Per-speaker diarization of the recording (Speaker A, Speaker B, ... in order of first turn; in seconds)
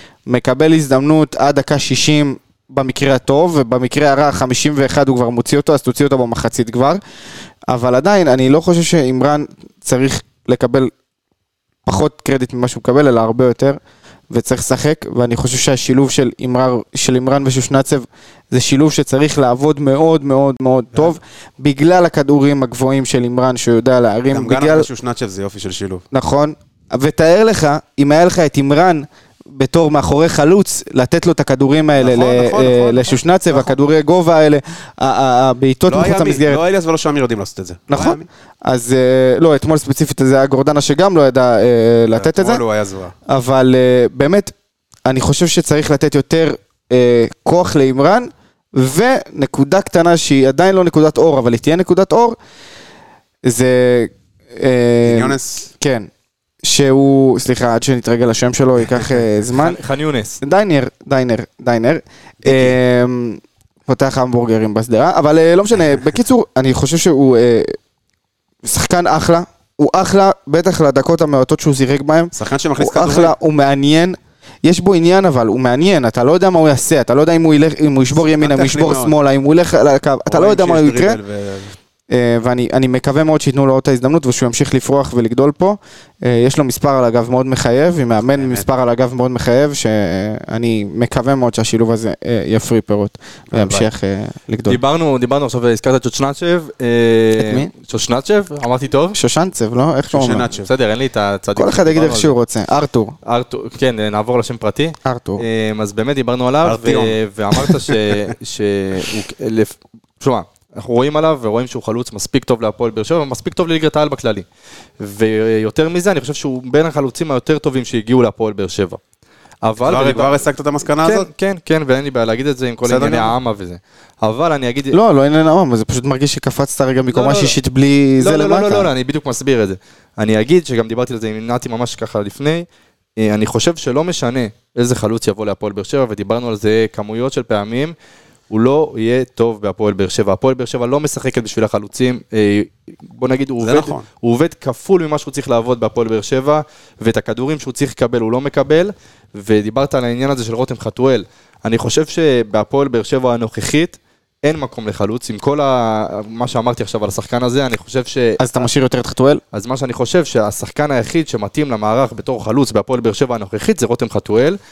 Speaker A: 0.3-7.0, 7.7-10.9, 11.9-13.8, 14.3-24.9, 26.1-36.6, 37.9-42.6, 43.3-44.5, 45.1-52.4, 53.5-56.1, 56.6-59.8, 60.4-67.8, 68.6-81.2, 82.1-94.8, 97.4-97.7, 99.2-100.5, 101.6-103.2, 105.0-105.4, 124.9-128.9, 158.4-159.4
Speaker B: 24.3-26.0, 32.0-33.8, 35.9-38.3, 42.1-43.1, 55.0-55.7, 62.4-62.8, 72.3-73.3, 78.3-79.1, 80.3-81.8, 88.2-88.7, 93.5-93.9, 100.1-100.7, 106.6-108.2, 119.8-121.3, 122.8-123.3, 143.6-144.0
Speaker C: 59.6-60.4, 94.7-99.2, 100.6-102.4, 103.2-114.5, 115.0-119.0, 119.6-120.4, 121.0-125.0, 127.1-127.6, 128.2-132.7, 133.2-137.9, 138.5-158.7, 159.5-164.6